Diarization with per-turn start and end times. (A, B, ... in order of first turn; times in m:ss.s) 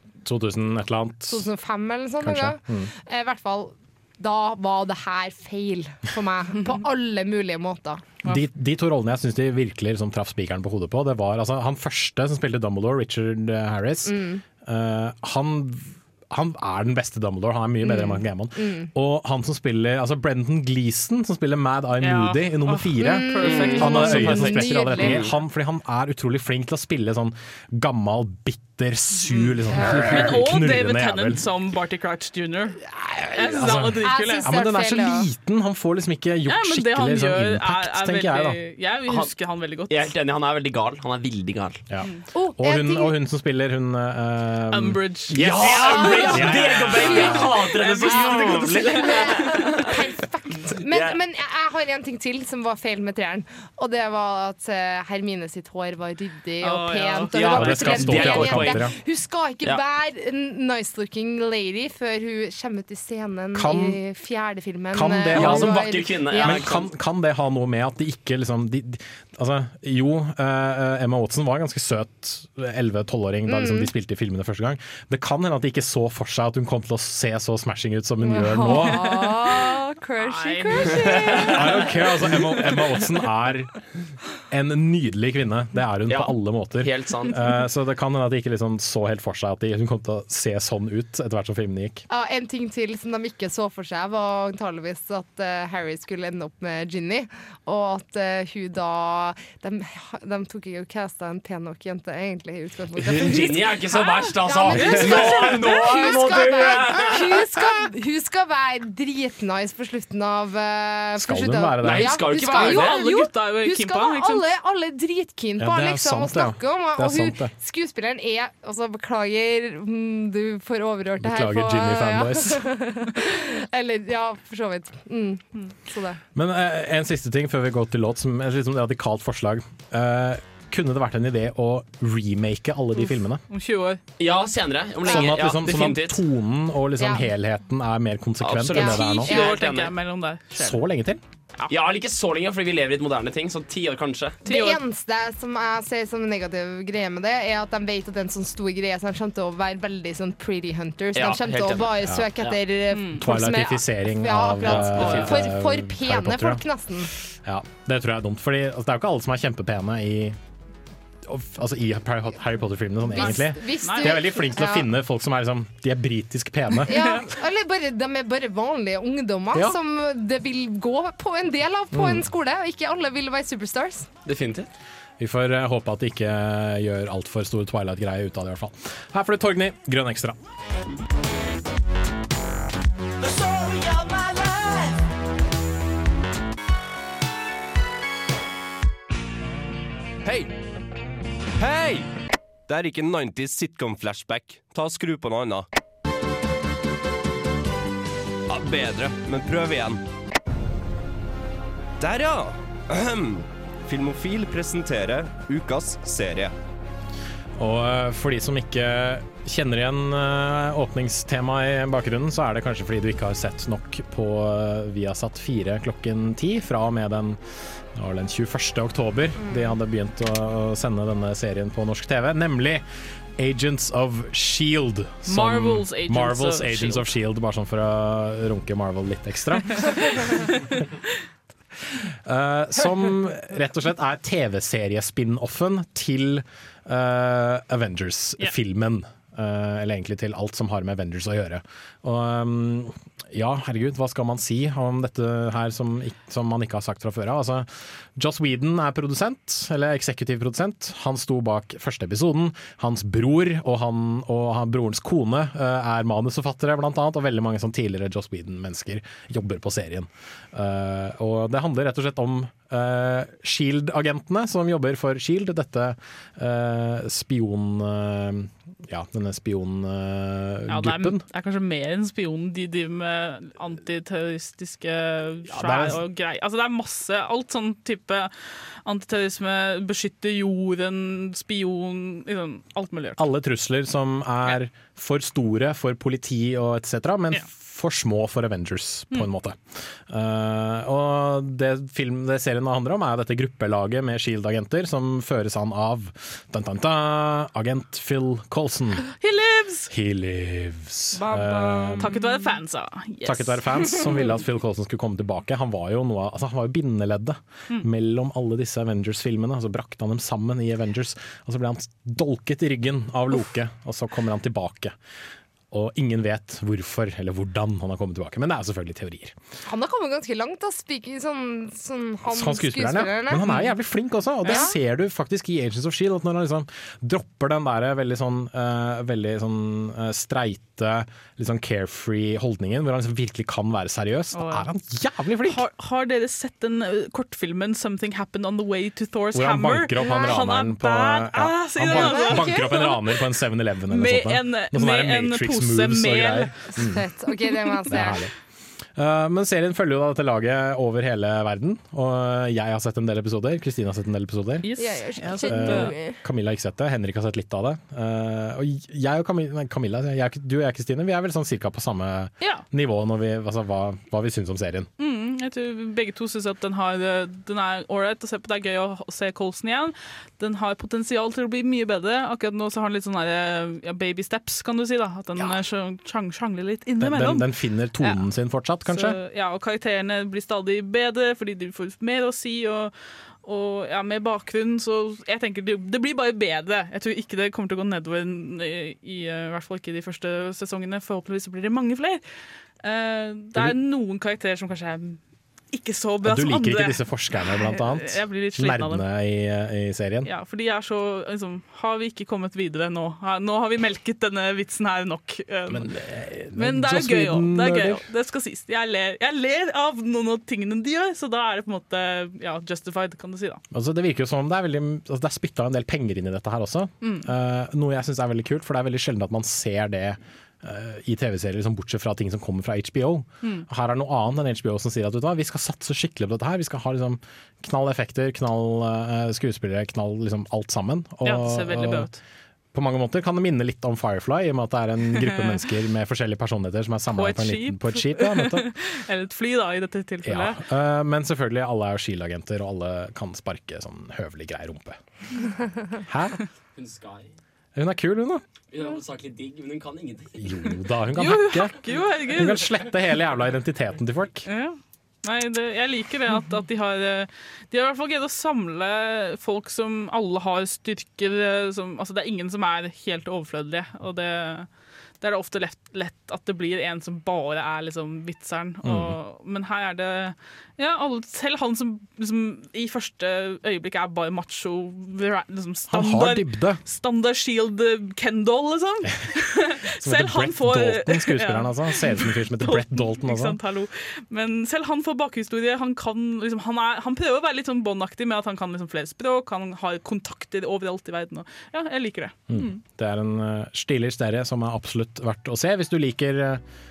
0:00.2-0:01.5 A
0:01.3-0:08.2 B
0:02.2-0:02.9 A
0:08.2-0:31.4 A
0:14.1-0:14.4 B
0:17.8-0:18.9 B
0:22.0-0:24.9 C
0:23.0-0:25.3 B
0:23.4-0:24.0 D
0:25.0-0:25.3 D
0:29.3-0:32.8 C
0:29.7-0:30.2 B
0:33.0-0:38.6 A
0:33.3-0:34.6 C
0:34.0-0:35.3 B
0:36.5-0:40.1 C
0:39.0-0:39.3 D
0:39.9-0:41.8 D
0:41.9-0:47.5 A
0:42.3-0:43.1 B
0:44.7-0:46.6 C
0:45.3-0:50.0 D
0:45.6-1:06.8 B
0:47.7-0:49.8 C
0:48.3-0:48.8 A
0:50.7-0:51.2 D
0:56.6-0:57.3 C
0:57.3-0:58.9 D
0:57.5-0:59.0 A
1:03.5-1:04.0 A
1:04.9-1:19.1 A
1:05.3-1:06.9 D
1:13.5-1:13.9 B
1:18.2-1:21.9 B
1:18.7-1:21.7 C
1:21.5-1:23.7 A
1:24.5-1:32.0 A
1:26.1-1:27.4 D
1:32.1-2:06.2 B
1:43.0-1:47.5 D
1:44.7-1:46.6 C
1:51.2-1:52.3 A
1:51.8-1:53.0 D
1:52.5-1:54.4 C
1:55.6-1:57.5 A
2:01.2-2:02.7 A
2:06.4-2:13.4 A
2:13.5-2:14.0 C
2:14.2-2:16.2 D
2:15.0-2:19.3 A
2:15.1-2:15.5 B
2:17.0-2:17.3 B
2:18.4-2:19.9 D
2:18.7-2:19.6 B
2:18.8-2:20.8 C
2:20.5-2:21.2 A
2:21.7-2:24.4 D
2:24.4-2:24.8 C
2:24.4-2:37.1 B
2:31.2-2:32.5 D
2:32.9-2:33.2 C
2:33.2-2:36.6 A
2:34.6-2:35.5 C
2:37.4-2:40.4 A
2:41.3-2:47.1 A
2:43.1-2:44.9 B
2:43.2-2:44.2 C
2:46.9-2:54.1 B
2:51.9-2:52.2 A
2:54.2-2:54.7 D
2:55.2-3:00.4 A
3:03.2-3:05.0 E
3:10.2-3:10.5 E
3:11.6-3:12.1 E
3:12.7-3:15.7 E
3:18.5-3:20.0 E
3:22.0-3:26.5 E
3:27.6-3:37.4 A
3:37.9-3:42.8 A
3:39.4-3:39.8 B
3:43.4-3:50.2 A
3:45.3-3:47.1 C
3:49.8-3:50.8 C
3:52.2-4:31.2 A
4:30.7-4:43.2 C
4:35.5-4:36.0 A
4:43.2-4:59.1 A
4:59.1-4:59.9 C
4:59.9-5:02.1 A
5:01.2-5:04.3 C
5:03.2-5:15.0 A
5:15.7-5:19.4 A
5:19.7-5:23.5 B
5:22.3-5:35.6 A
5:23.4-5:23.7 C
5:24.5-5:24.7 B
5:34.3-5:34.7 C
5:35.5-5:43.0 C
5:39.3-5:47.0 A
5:40.0-5:40.4 B
5:41.9-5:42.8 B
5:43.9-5:46.7 C
5:46.8-5:48.2 B
5:47.9-5:48.3 A
5:49.0-5:54.7 A
5:54.6-5:56.0 C
5:54.8-5:56.2 B
5:55.4-6:04.9 A
6:05.0-6:17.5 C
6:17.0-6:19.2 A
6:18.0-6:18.2 C
6:18.8-6:32.2 C
6:32.8-6:35.2 C
6:35.7-6:39.0 C
6:36.2-6:40.3 A
6:40.2-6:45.9 C
6:45.7-6:48.0 A
6:46.5-6:53.6 C
6:53.7-7:12.1 A
6:57.0-6:57.3 C
7:11.2-7:12.2 C
7:12.7-7:18.7 A
7:15.1-7:15.6 C
7:17.1-7:20.6 C
7:20.2-7:25.0 A
7:26.0-7:26.4 A
7:26.8-7:27.3 D
7:27.8-7:28.4 A
7:28.7-7:30.6 D
7:30.4-7:34.5 A
7:31.2-7:32.8 C
7:34.5-7:44.7 C
7:45.2-8:12.8 C
7:48.8-7:49.2 A
7:55.9-7:56.8 A
8:00.0-8:03.6 A
8:12.5-8:16.6 A